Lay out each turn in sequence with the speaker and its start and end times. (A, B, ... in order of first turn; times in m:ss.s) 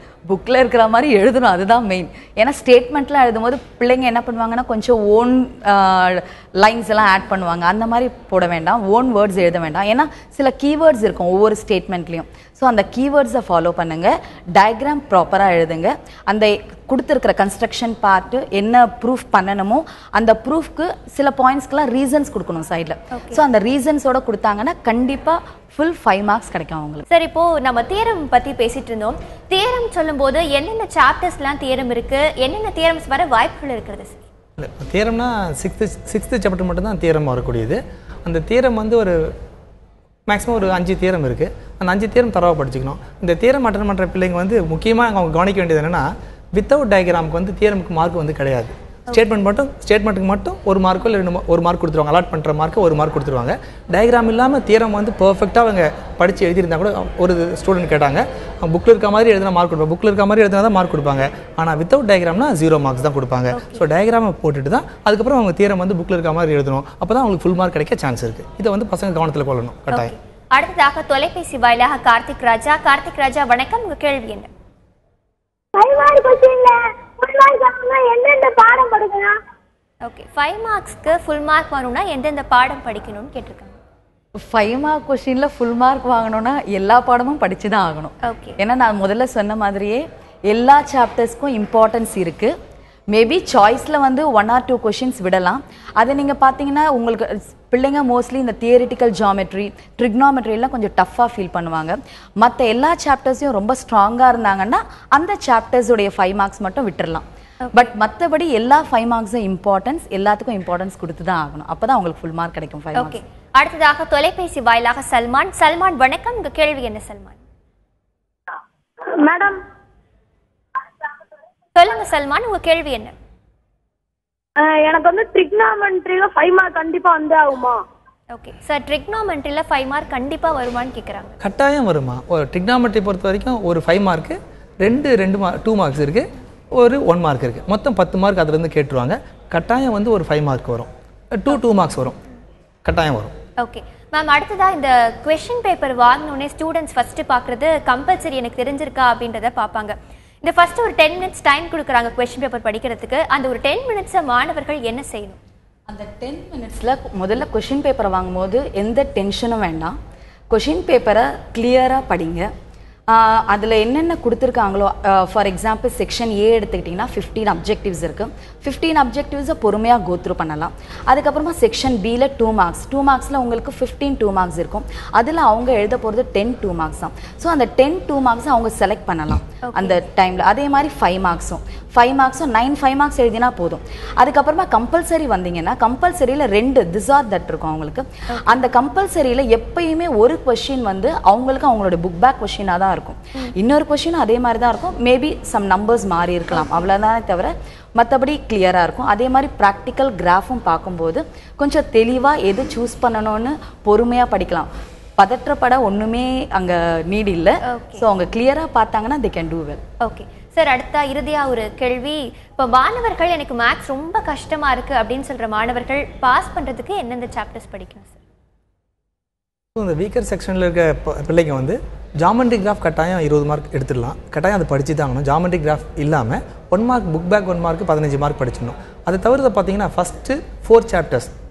0:00.3-0:27.0 A
0:23.1-0:23.4 B
0:27.1-0:34.2 B
0:34.6-0:39.3 C
0:40.3-1:10.1 C
1:03.5-1:03.8 B
1:09.9-1:14.5 B
1:15.7-1:19.3 D
1:20.0-1:23.8 B
1:24.4-1:32.5 A
1:28.2-1:28.6 B
1:33.1-1:53.2 A
1:53.0-1:57.4 B
1:59.2-1:59.6 D
2:01.7-2:03.1 B
2:04.6-2:07.8 D
2:08.3-2:11.4 B
2:11.4-2:16.2 C
2:16.8-2:22.2 C
2:22.8-2:23.3 C
2:23.6-2:35.4 B
2:35.9-2:39.9 A
2:40.5-2:42.5 A
2:43.1-3:29.8 A
2:59.6-3:00.0 B
3:08.3-3:08.6 B
3:27.7-3:28.0 B
3:30.0-3:38.2 B
3:39.8-3:51.3 C